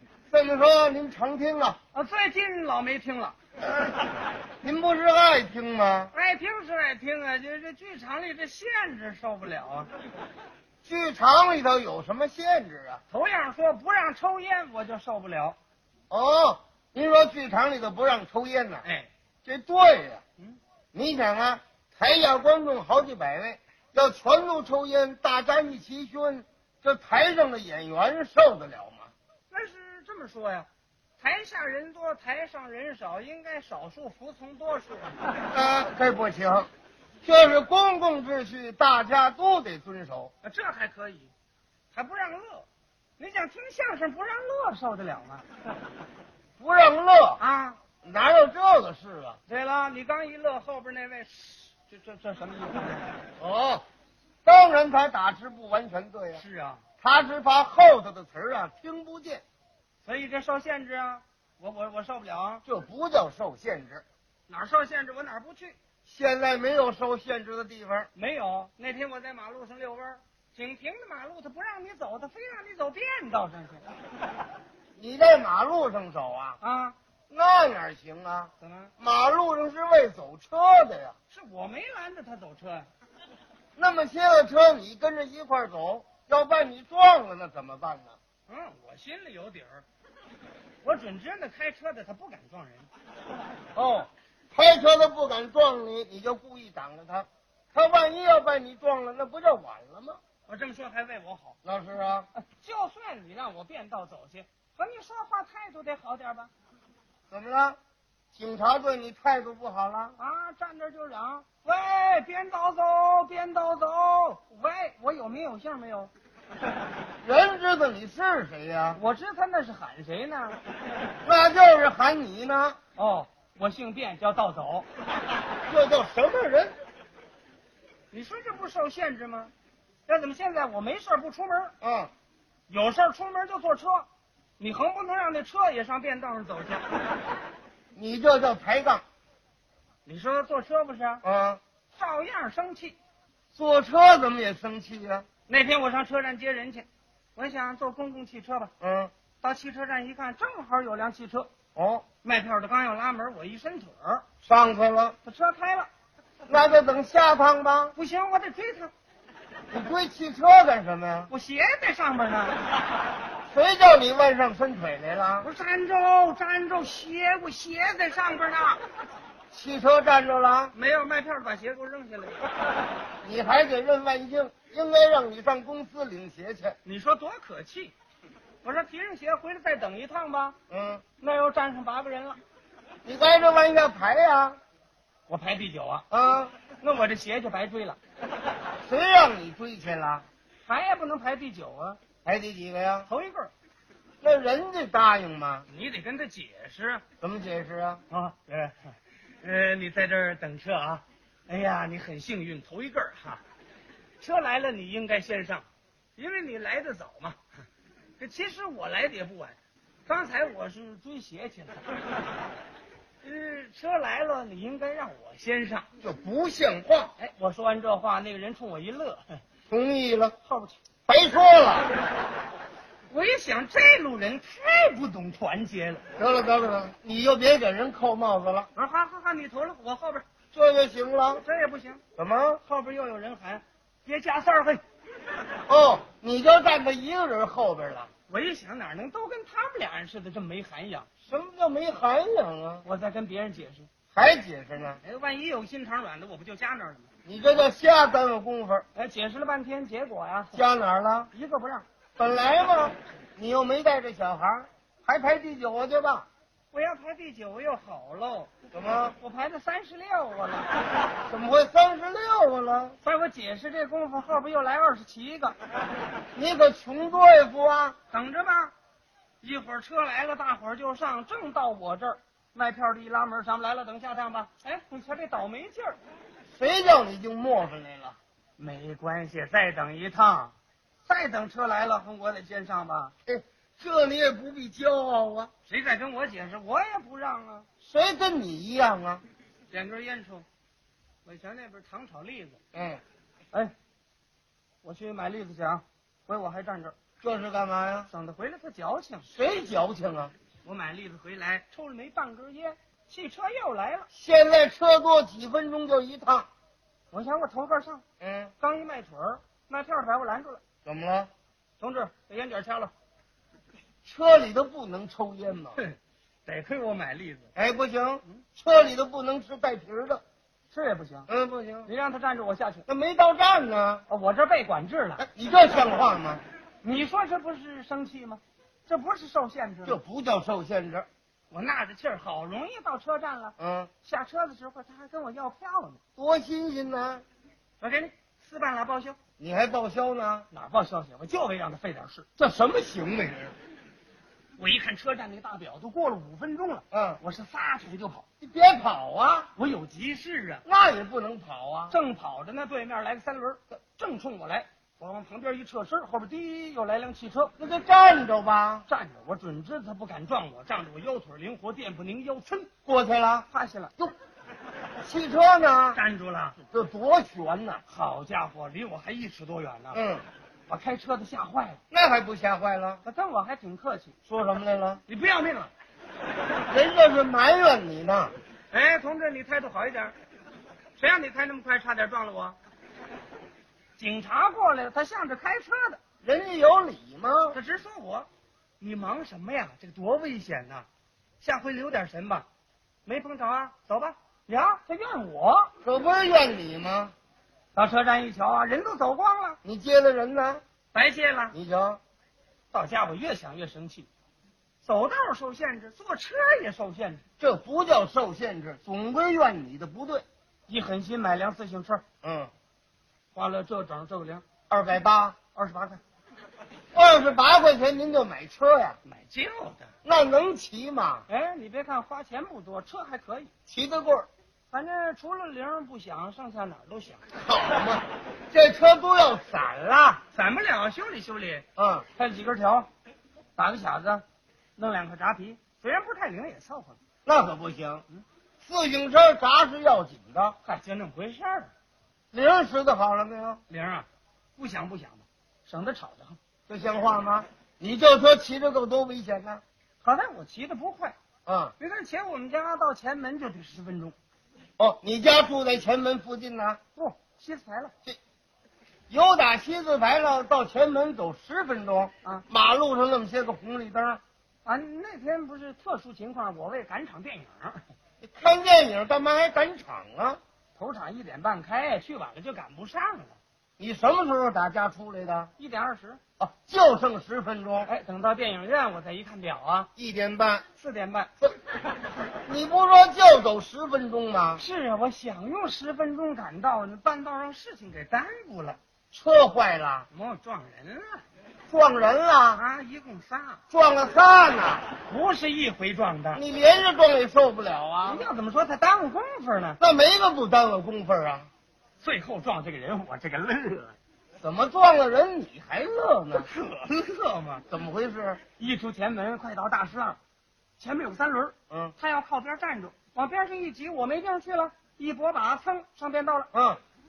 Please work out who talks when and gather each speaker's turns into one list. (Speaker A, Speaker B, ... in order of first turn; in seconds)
Speaker A: 0.3-1.8, 4.6-6.1, 10.8-13.0, 16.1-18.8, 19.4-20.2, 20.9-29.1, 35.4-36.7, 37.2-40.3, 46.6-47.4, 48.0-49.4, 53.4-53.8, 54.4-56.4, 57.0-59.4, 62.6-64.0, 66.0-68.1, 75.0-76.6, 77.3-81.1, 83.8-88.2, 93.7-100.2, 101.6-102.3, 107.3-107.8, 108.3-110.2, 117.2-119.0, 121.2-122.8, 125.7-126.8, 131.8-132.1, 137.9-139.0, 141.2-141.6, 143.5-145.3, 148.8-149.1, 151.7-152.0, 154.4-155.2, 156.5-157.9, 159.7-161.3, 163.5-165.5, 169.5-170.7, 173.2-176.8, 180.7-181.0, 183.0-184.6, 186.1-186.5, 188.8-190.2, 192.2-193.1, 194.2-195.7, 197.2-198.0, 216.0-217.1, 219.7-220.3, 221.1-221.9, 226.2-228.7, 230.5-231.4, 232.2-232.6, 235.7-238.1, 241.2-242.8, 244.1-245.0, 247.2-248.8, 250.5-251.3, 252.2-256.2, 258.7-259.1, 261.3-263.0, 266.3-267.9, 276.5-278.2, 283.2-285.5, 287.8-289.2, 292.7-293.0, 297.2-298.1, 299.3-300.3, 304.1-306.5, 308.2-308.5, 310.8-311.3, 314.0-315.8, 317.6-320.2, 321.3-321.9, 322.9-324.0, 325.2-326.4, 329.8-331.1, 333.6-333.9, 336.2-337.2, 339.4-340.5, 342.4-343.5, 346.9-347.2, 348.4-349.5, 350.6-351.9, 357.6-358.9, 362.9-364.1, 365.0-366.0, 366.7-367.8, 369.9-370.2, 371.9-373.0, 374.3-375.0, 376.7-378.3, 386.2-387.6, 395.8-397.1, 399.6-400.6, 401.5-402.0, 407.4-410.2, 412.2-412.5, 414.7-415.4, 416.9-419.0, 420.0-421.2, 423.7-424.3, 427.3-430.2, 431.8-432.1, 437.2-438.0, 438.6-440.6, 442.3-443.6, 446.7-449.6, 451.4-451.7, 454.8-456.8, 459.1-464.2, 468.2-470.4, 473.8-475.5, 476.4-477.9, 480.0-480.6, 482.4-484.6, 489.1-490.1, 491.7-492.6, 493.7-494.9, 496.3-498.3, 499.8-501.5, 504.4-506.5, 507.7-508.4, 511.7-511.9, 516.5-516.8
Speaker B: 1.9-3.3, 6.1-9.9, 13.1-15.6, 18.8-19.1, 29.5-30.7, 31.2-35.2, 40.4-41.3, 41.9-42.7, 43.2-45.4, 47.4-47.8, 49.5-53.1, 56.3-56.8, 60.0-62.6, 64.5-65.8, 68.1-73.8, 76.6-77.0, 78.6-78.9, 81.3-82.9, 88.5-89.8, 90.8-92.9, 100.5-101.5, 102.3-106.5, 110.2-116.1, 119.0-120.6, 123.0-124.9, 128.1-129.5, 130.1-131.7, 132.7-134.1, 134.6-136.8, 140.1-141.2, 141.9-142.9, 145.5-148.7, 149.4-151.5, 152.2-154.2, 155.2-155.9, 157.9-158.9, 161.3-162.6, 165.4-168.8, 170.7-172.4, 176.8-177.9, 178.6-180.6, 181.2-182.4, 185.3-186.0, 186.8-188.0, 190.7-192.0, 193.1-193.5, 195.7-197.0, 198.1-203.4, 204.2-205.7, 206.2-207.4, 208.2-211.8, 213.2-215.9, 217.2-219.4, 220.4-220.8, 223.1-226.0, 228.7-230.2, 231.4-232.0, 232.6-234.8, 238.3-241.1, 242.8-243.9, 245.0-247.1, 248.9-250.6, 251.3-251.8, 256.7-260.7, 263.0-265.6, 268.1-268.7, 269.4-276.0, 278.6-280.5, 281.1-283.1, 285.6-287.7, 289.7-290.4, 291.2-292.6, 294.8-296.9, 298.1-299.3, 300.6-304.1, 307.1-308.0, 308.6-310.6, 311.8-312.9, 315.8-317.5, 320.7-321.3, 321.9-322.8, 324.1-325.2, 326.8-330.0, 331.5-336.0, 337.8-339.2, 340.5-342.2, 344.6-348.2, 349.6-350.6, 351.9-357.5, 358.9-362.7, 363.5-363.9, 365.9-366.6, 367.9-370.0, 370.7-371.8, 373.0-374.1, 375.1-375.7, 378.7-380.1, 381.0-382.6, 384.0-386.0, 387.5-388.3, 388.8-390.9, 391.4-392.4, 393.1-395.7, 397.7-399.6, 400.9-401.5, 402.7-404.1, 404.8-407.2, 410.7-412.0, 413.3-414.4, 415.5-416.0, 419.0-419.9, 421.3-423.5, 424.7-427.2, 430.3-431.6, 432.1-432.9, 433.6-434.2, 434.8-437.0, 440.6-441.7, 443.7-446.4, 450.0-451.1, 451.8-454.1, 456.9-457.9, 464.6-467.8, 470.8-473.4, 475.6-476.2, 477.9-479.9, 480.8-481.3, 484.6-488.8, 490.1-491.2, 492.6-493.6, 495.1-496.4, 498.0-499.8, 502.0-503.9, 506.3-507.6, 508.6-510.2, 510.8-516.5